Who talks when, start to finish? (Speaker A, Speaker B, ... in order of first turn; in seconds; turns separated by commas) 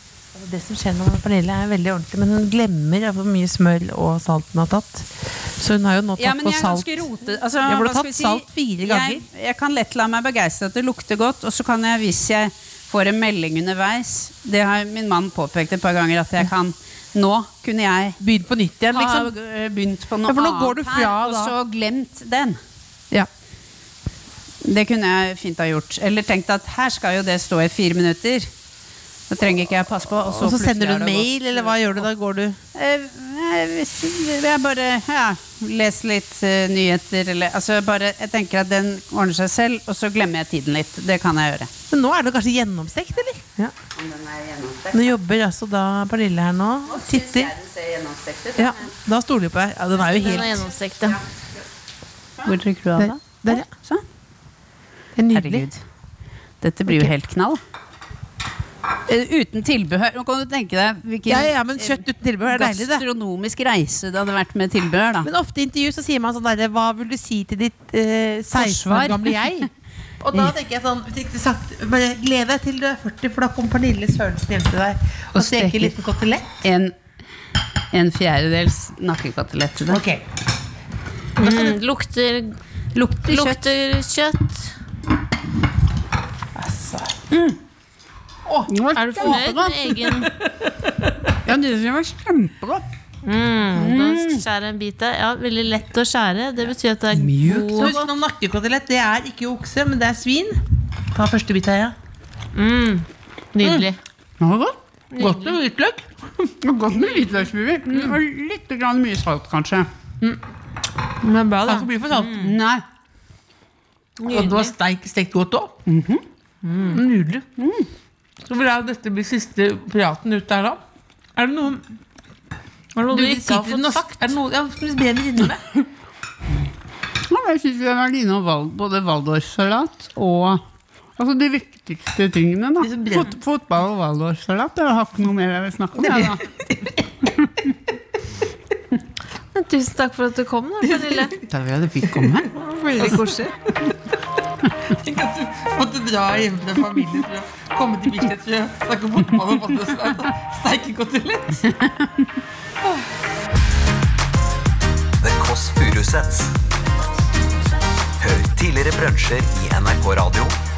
Speaker A: 0.3-9.2, Speaker B: 6.2-18.2, Speaker A: 18.2-19.3, Speaker B: 18.9-22.6, Speaker A: 20.2-21.6, Speaker B: 24.6-28.5, Speaker B: 29.3-32.0, Speaker A: 30.4-32.6, Speaker B: 32.8-41.7, Speaker A: 41.9-43.7, Speaker B: 43.9-45.1, Speaker A: 44.9-47.5, Speaker B: 46.9-48.9, Speaker A: 48.6-50.7, Speaker B: 50.1-51.1, Speaker C: 50.1-51.2, Speaker B: 52.4-54.0, Speaker A: 53.0-53.7, Speaker A: 55.2-55.7, Speaker B: 55.3-55.8, Speaker B: 56.6-57.6, Speaker A: 56.9-57.1, Speaker B: 59.1-65.3, Speaker A: 61.3-63.0, Speaker A: 65.2-69.7, Speaker B: 68.5-69.4, Speaker A: 70.2-76.5, Speaker B: 75.3-75.9, Speaker B: 76.6-77.0, Speaker B: 77.9-80.0, Speaker A: 79.9-80.2, Speaker C: 81.4-82.6, Speaker A: 81.4-81.7, Speaker B: 82.9-83.6, Speaker C: 83.2-84.7, Speaker A: 86.5-87.2, Speaker B: 87.3-87.6, Speaker A: 88.5-89.5, Speaker B: 88.7-90.3, Speaker C: 88.9-90.3, Speaker A: 90.1-90.5, Speaker B: 91.4-92.8, Speaker C: 93.2-98.0, Speaker B: 93.7-94.4, Speaker B: 97.2-98.0, Speaker A: 97.5-102.0, Speaker C: 102.5-104.0, Speaker B: 104.4-104.8, Speaker C: 105.1-105.6, Speaker A: 105.2-106.5, Speaker B: 106.6-109.9, Speaker A: 107.9-108.2, Speaker A: 111.2-112.6, Speaker B: 112.2-112.8, Speaker C: 114.2-114.7, Speaker A: 114.3-115.8, Speaker B: 115.9-116.2, Speaker C: 116.6-117.0, Speaker A: 116.9-117.5, Speaker B: 117.6-117.9, Speaker A: 118.5-120.8, Speaker A: 121.4-121.8, Speaker C: 123.0-124.3, Speaker A: 123.1-125.7, Speaker B: 127.2-130.6, Speaker B: 131.2-136.4, Speaker A: 132.8-133.4, Speaker A: 136.0-136.9, Speaker C: 139.5-141.4, Speaker A: 140.9-141.4, Speaker B: 141.4-143.4, Speaker A: 143.0-143.4, Speaker C: 143.1-143.4, Speaker A: 144.9-151.7, Speaker B: 151.7-152.2, Speaker D: 155.2-156.6, Speaker D: 158.2-160.6